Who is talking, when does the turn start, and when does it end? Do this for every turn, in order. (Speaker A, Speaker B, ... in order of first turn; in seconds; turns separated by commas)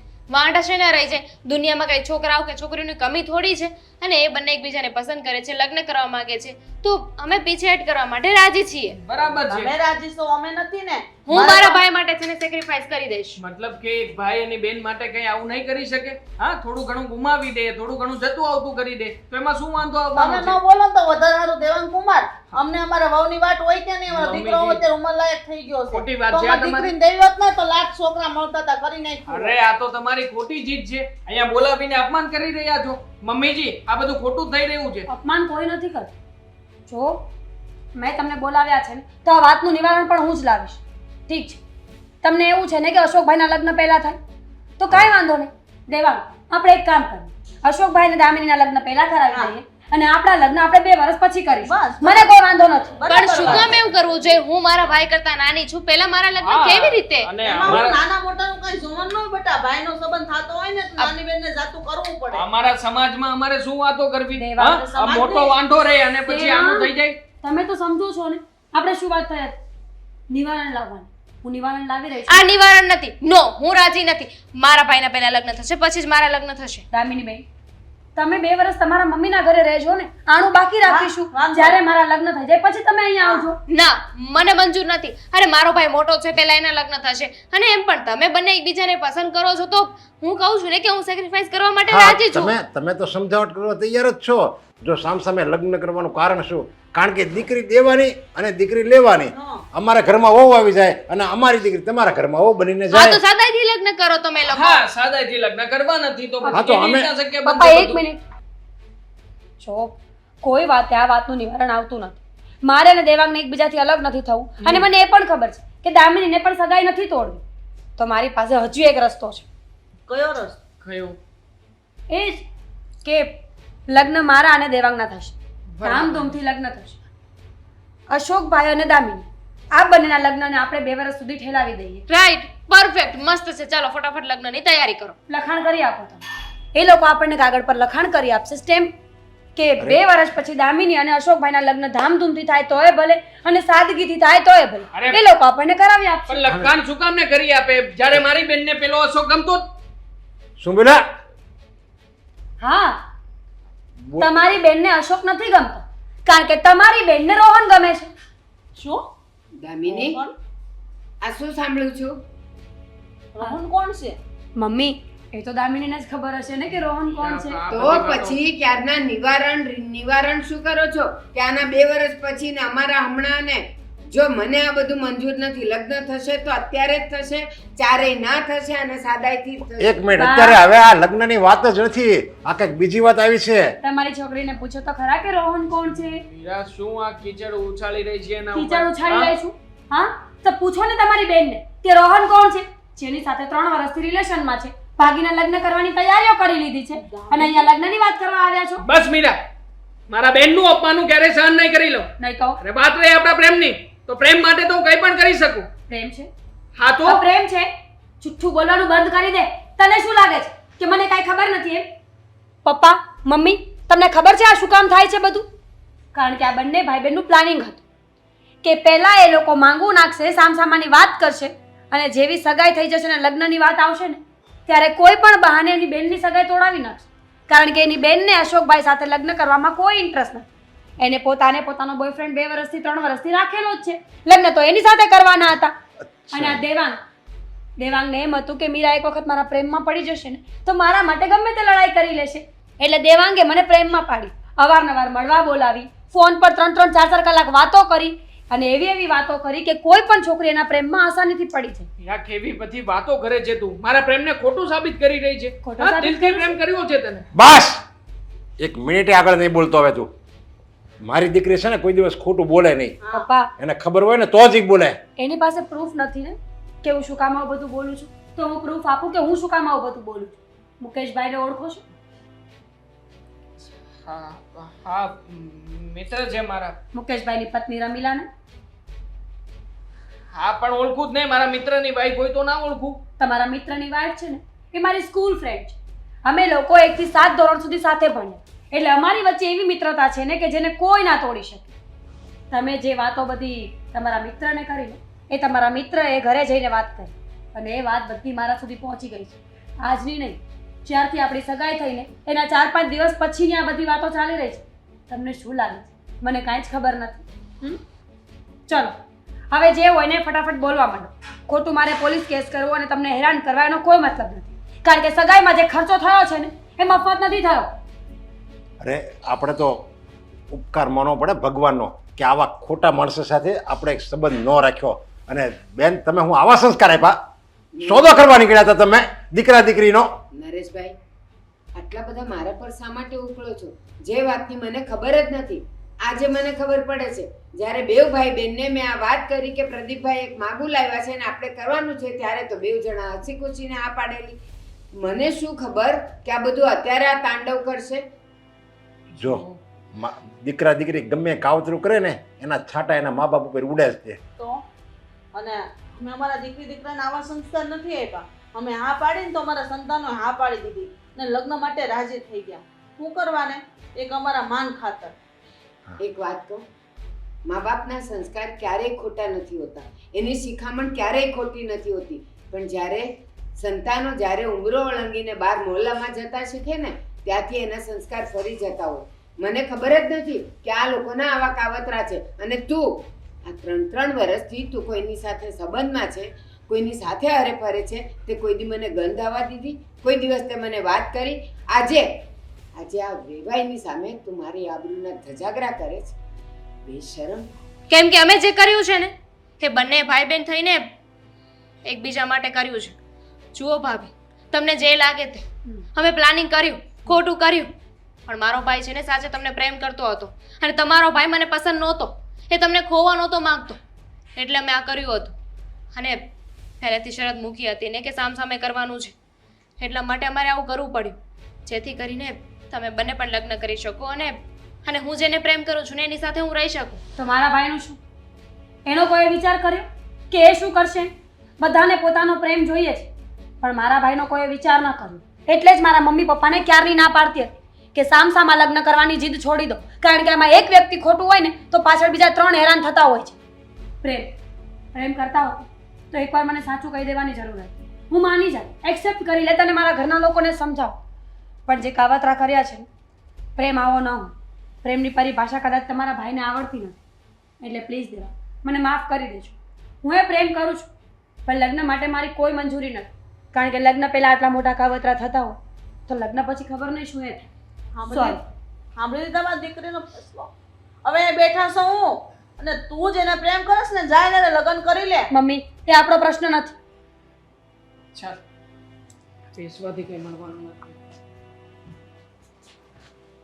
Speaker A: 0.3-9.0, Speaker B: 9.0-9.7, Speaker C: 9.5-11.8, Speaker A: 11.3-13.4, Speaker B: 13.4-20.6, Speaker C: 20.1-29.5, Speaker B: 24.1-24.8, Speaker B: 25.9-26.9, Speaker B: 29.3-35.0, Speaker D: 35.1-36.1, Speaker D: 36.9-37.3, Speaker D: 37.9-41.6, Speaker D: 42.2-44.2, Speaker D: 44.8-53.0, Speaker C: 51.5-52.3, Speaker C: 52.9-53.8, Speaker A: 53.1-57.4, Speaker B: 56.4-58.0, Speaker C: 57.4-62.5, Speaker B: 62.3-67.2, Speaker D: 64.3-64.8, Speaker C: 64.7-65.6, Speaker D: 66.2-66.9, Speaker D: 67.4-69.5, Speaker D: 70.3-72.5, Speaker A: 72.3-76.8, Speaker D: 76.9-77.4, Speaker D: 78.2-83.6, Speaker C: 80.8-81.8, Speaker A: 83.6-92.5, Speaker E: 91.9-103.2, Speaker C: 99.3-99.6, Speaker A: 102.9-104.8, Speaker B: 104.5-108.0, Speaker E: 106.5-107.1, Speaker D: 107.4-108.2, Speaker D: 109.6-117.4, Speaker D: 118.0-119.4, Speaker C: 120.1-120.6, Speaker B: 120.8-121.2, Speaker D: 122.1-122.4, Speaker D: 123.0-127.0, Speaker B: 125.8-126.3, Speaker D: 128.1-132.0, Speaker A: 132.1-135.2, Speaker D: 135.3-136.2, Speaker D: 136.7-138.9, Speaker D: 139.5-146.4, Speaker B: 144.9-145.2, Speaker B: 146.3-149.6, Speaker E: 146.4-146.7, Speaker E: 150.6-151.0, Speaker D: 152.6-153.0, Speaker E: 154.0-154.4, Speaker D: 154.2-158.1, Speaker C: 158.8-159.1, Speaker F: 159.6-160.2, Speaker C: 159.8-160.3, Speaker F: 161.2-162.2, Speaker C: 163.3-164.2, Speaker D: 164.6-167.6, Speaker B: 167.1-168.4, Speaker F: 167.7-180.1, Speaker E: 179.8-183.8, Speaker D: 180.2-180.6, Speaker D: 183.8-186.2, Speaker B: 186.3-189.3, Speaker D: 188.5-198.8, Speaker C: 196.9-197.6, Speaker B: 198.8-199.4, Speaker B: 200.1-202.1, Speaker D: 202.2-202.6, Speaker B: 202.6-205.7, Speaker D: 205.9-206.3, Speaker B: 206.8-207.2, Speaker D: 207.0-207.7, Speaker D: 208.2-211.9, Speaker D: 212.6-215.4, Speaker D: 216.1-217.8, Speaker D: 218.6-230.4, Speaker D: 231.0-235.7, Speaker E: 236.3-236.6, Speaker D: 236.3-237.0, Speaker D: 237.8-251.9, Speaker B: 252.0-257.2, Speaker D: 255.6-256.5, Speaker E: 257.3-257.8, Speaker E: 258.6-260.1, Speaker E: 261.0-263.0, Speaker C: 263.0-263.3, Speaker D: 263.1-263.5, Speaker E: 263.6-265.0, Speaker D: 265.2-271.8, Speaker B: 274.0-276.8, Speaker D: 276.9-278.3, Speaker B: 280.3-283.0, Speaker D: 283.2-291.7, Speaker D: 292.5-307.8, Speaker D: 308.7-308.9, Speaker D: 309.5-317.7, Speaker E: 318.8-319.9, Speaker E: 320.5-327.2, Speaker F: 327.7-328.2, Speaker E: 327.8-330.1, Speaker F: 330.3-330.9, Speaker F: 331.7-344.4, Speaker F: 345.0-348.0, Speaker B: 349.1-349.6, Speaker E: 349.2-349.4, Speaker E: 349.9-354.2, Speaker C: 354.4-354.6, Speaker C: 355.3-365.1, Speaker F: 366.0-366.6, Speaker F: 367.4-392.1, Speaker F: 392.8-396.1, Speaker F: 396.9-397.5, Speaker A: 397.9-400.8, Speaker A: 401.8-402.9, Speaker A: 403.5-407.7, Speaker A: 408.3-413.8, Speaker A: 414.4-415.3, Speaker A: 415.9-416.3, Speaker A: 416.8-419.1, Speaker A: 419.8-427.0, Speaker D: 427.2-428.0, Speaker D: 428.8-433.1, Speaker D: 433.6-443.4, Speaker D: 444.0-444.3, Speaker D: 444.9-451.0, Speaker D: 451.7-452.9, Speaker D: 453.6-456.9, Speaker D: 457.6-460.9, Speaker D: 461.4-465.6, Speaker D: 466.1-467.5, Speaker C: 467.9-468.4, Speaker D: 468.1-468.4, Speaker C: 468.9-470.5, Speaker C: 471.0-475.3, Speaker D: 475.3-476.7, Speaker B: 479.5-480.9